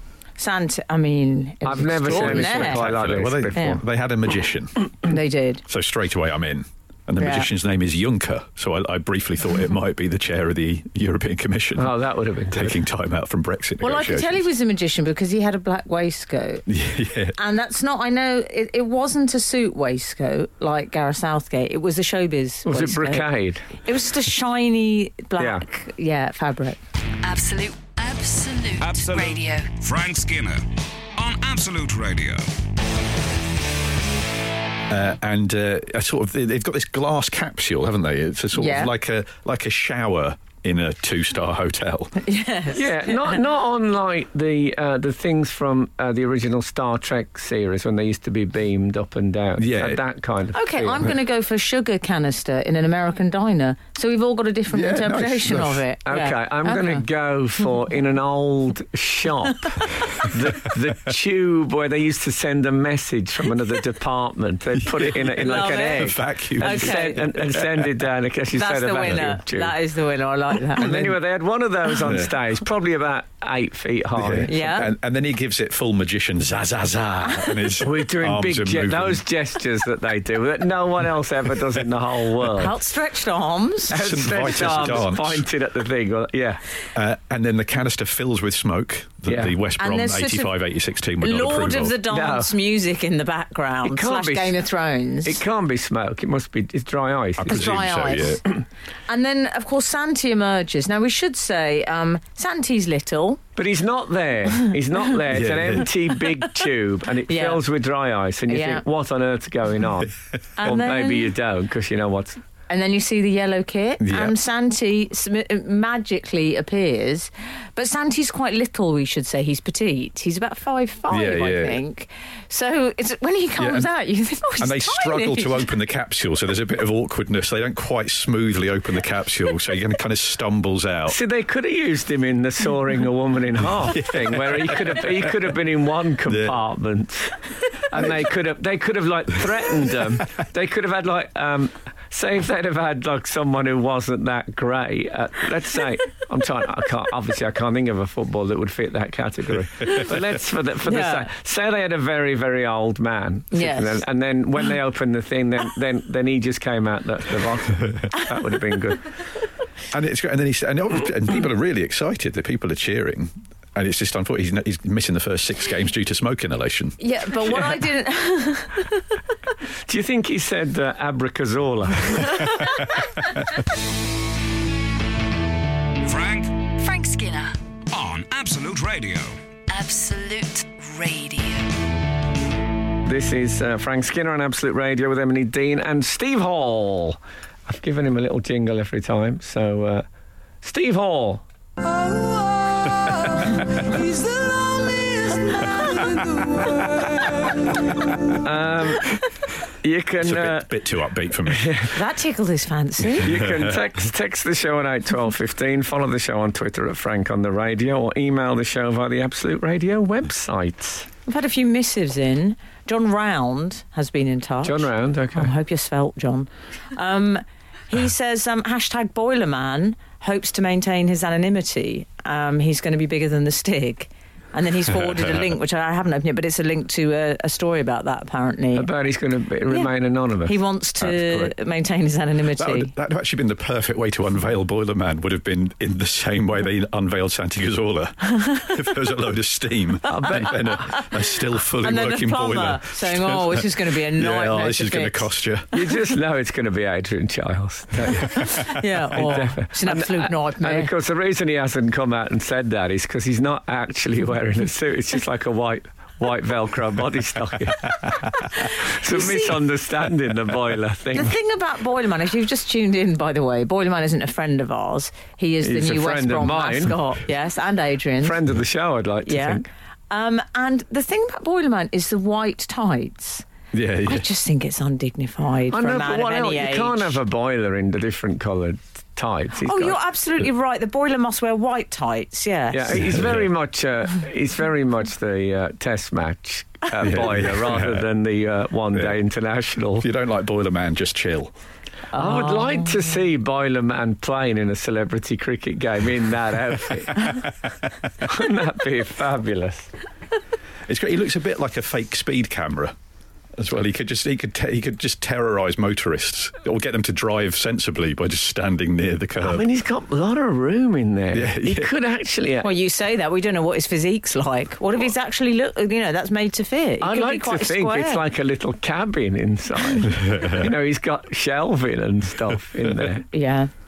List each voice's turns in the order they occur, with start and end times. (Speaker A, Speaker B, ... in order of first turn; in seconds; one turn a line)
Speaker A: 0.4-2.9
Speaker B: 1.6-3.8
Speaker C: 2.0-4.8
Speaker A: 5.1-5.6
Speaker C: 5.7-11.9
Speaker A: 7.2-7.5
Speaker B: 11.8-12.8
Speaker C: 12.5-14.4
Speaker A: 13.8-16.6
Speaker C: 16.7-17.4
Speaker A: 17.4-26.8
Speaker B: 22.6-23.7
Speaker B: 25.4-25.6
Speaker D: 27.2-29.7
Speaker E: 28.8-30.6
Speaker E: 31.1-32.5
Speaker C: 34.9-42.2
Speaker A: 38.5-38.9
Speaker A: 42.2-43.4
Speaker B: 42.7-51.1
Speaker C: 49.6-50.0
Speaker A: 50.5-57.0
Speaker C: 54.7-55.8
Speaker B: 56.0-69.7
Speaker C: 65.0-67.0
Speaker A: 65.3-67.4
Speaker A: 68.5-71.1
Speaker B: 70.7-74.7
Speaker C: 72.0-72.3
Speaker C: 74.2-79.2
Speaker A: 74.5-74.9
Speaker B: 77.8-82.7
Speaker A: 82.5-84.0
Speaker B: 83.9-86.6
Speaker C: 83.9-85.5
Speaker C: 86.9-92.0
Speaker B: 89.3-89.5
Speaker A: 89.8-90.5
Speaker A: 91.2-95.4
Speaker B: 92.1-92.5
Speaker B: 93.8-94.6
Speaker B: 95.2-97.7
Speaker C: 97.4-98.4
Speaker A: 97.5-98.4
Speaker A: 99.1-103.4
Speaker B: 103.5-110.1
Speaker C: 105.3-105.9
Speaker A: 107.3-107.6
Speaker A: 108.5-108.8
Speaker A: 110.6-111.3
Speaker B: 110.6-112.4
Speaker A: 112.7-125.7
Speaker C: 114.0-114.3
Speaker C: 121.1-121.8
Speaker C: 123.6-123.9
Speaker C: 124.6-131.2
Speaker B: 131.1-137.4
Speaker C: 133.9-135.3
Speaker C: 136.3-136.5
Speaker B: 137.9-159.1
Speaker A: 150.8-151.3
Speaker A: 153.5-154.0
Speaker C: 159.9-167.0
Speaker A: 167.0-169.0
Speaker B: 169.9-172.6
Speaker E: 176.0-176.6
Speaker D: 176.8-177.6
Speaker E: 177.9-179.3
Speaker D: 179.7-181.7
Speaker B: 183.1-190.0
Speaker B: 190.6-191.4
Speaker B: 198.3-199.2
Speaker B: 199.8-200.7
Speaker C: 200.2-201.8
Speaker B: 201.4-201.9
Speaker A: 201.9-203.3
Speaker B: 203.2-211.1
Speaker C: 203.3-203.7
Speaker A: 211.3-228.9
Speaker B: 214.6-215.5
Speaker B: 228.7-231.4
Speaker A: 230.4-232.9
Speaker C: 232.6-245.7
Speaker A: 240.1-241.1
Speaker B: 240.1-240.6
Speaker A: 241.8-245.3
Speaker B: 245.7-261.3
Speaker A: 248.3-250.9
Speaker A: 258.6-259.6
Speaker A: 261.1-268.4
Speaker B: 265.6-267.0
Speaker B: 268.2-269.7
Speaker A: 269.2-273.4
Speaker C: 273.7-274.2
Speaker A: 274.0-277.2
Speaker B: 275.7-279.9
Speaker A: 279.6-283.1
Speaker B: 282.7-290.1
Speaker C: 283.1-283.4
Speaker C: 287.0-288.0
Speaker C: 290.0-291.5
Speaker A: 292.1-293.2
Speaker B: 292.1-297.4
Speaker B: 298.2-299.9
Speaker C: 300.9-302.9
Speaker C: 303.5-309.6
Speaker B: 309.4-312.7
Speaker C: 311.3-311.9
Speaker A: 312.6-318.2
Speaker B: 317.0-323.3
Speaker C: 320.2-320.6
Speaker A: 323.3-323.7